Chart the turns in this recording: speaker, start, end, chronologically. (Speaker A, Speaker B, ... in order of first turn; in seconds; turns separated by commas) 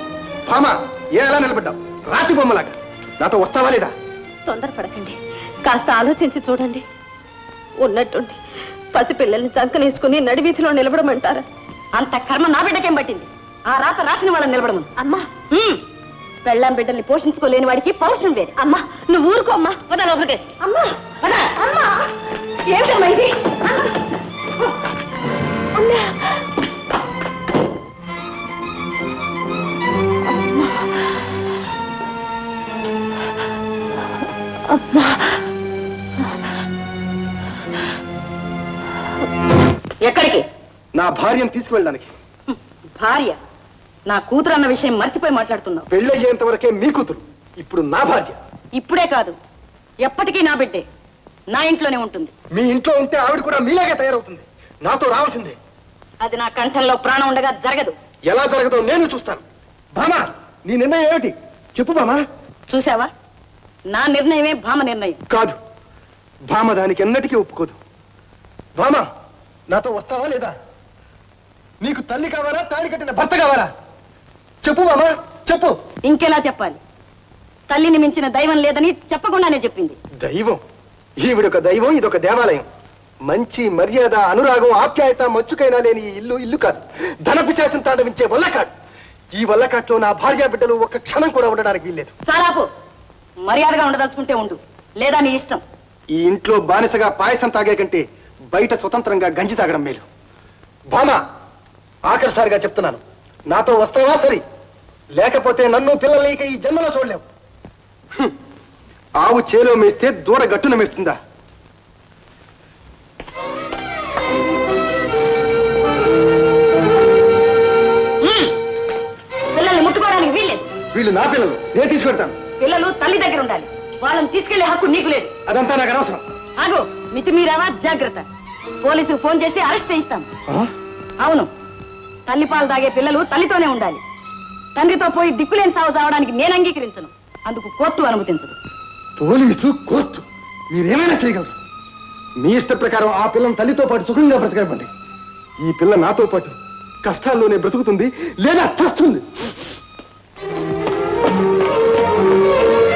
Speaker A: 0.5-3.9, Speaker B: 4.5-6.8, Speaker B: 7.8-8.4, Speaker B: 8.9-11.4, Speaker C: 11.9-14.9, Speaker B: 15.0-15.3, Speaker C: 15.5-15.8, Speaker C: 16.4-18.6, Speaker B: 18.6-19.9, Speaker C: 21.2-21.5, Speaker B: 21.5-22.1, Speaker B: 22.7-23.7, Speaker B: 25.8-26.1, Speaker C: 40.0-40.5, Speaker A: 41.0-42.1, Speaker C: 42.5-43.4, Speaker C: 44.1-45.9, Speaker A: 45.9-48.4, Speaker C: 48.8-49.4, Speaker C: 50.0-50.9, Speaker C: 51.5-52.3, Speaker A: 52.5-55.6, Speaker C: 56.2-58.0, Speaker A: 58.3-59.4, Speaker A: 60.0-62.2, Speaker C: 62.7-63.1, Speaker C: 63.9-65.2, Speaker A: 65.3-65.6, Speaker A: 66.5-67.8, Speaker A: 68.8-69.0, Speaker A: 69.7-70.5, Speaker A: 71.8-73.7, Speaker A: 74.6-75.8, Speaker C: 76.0-76.8, Speaker C: 77.7-80.0, Speaker A: 80.2-80.6, Speaker A: 81.2-82.7, Speaker A: 83.3-88.7, Speaker A: 89.3-92.1, Speaker C: 92.2-92.7, Speaker C: 93.4-95.6, Speaker A: 96.1-100.0, Speaker A: 100.9-101.2, Speaker A: 102.0-104.4, Speaker A: 105.2-107.2, Speaker A: 109.2-111.2, Speaker C: 118.2-118.5, Speaker C: 119.5-120.6, Speaker A: 120.9-122.3, Speaker C: 122.6-125.3, Speaker A: 125.5-126.2, Speaker C: 126.6-128.3, Speaker C: 128.8-130.3, Speaker C: 131.2-131.5, Speaker C: 132.3-134.0, Speaker C: 134.8-138.6, Speaker A: 139.2-141.5, Speaker A: 142.4-144.9, Speaker A: 145.6-149.5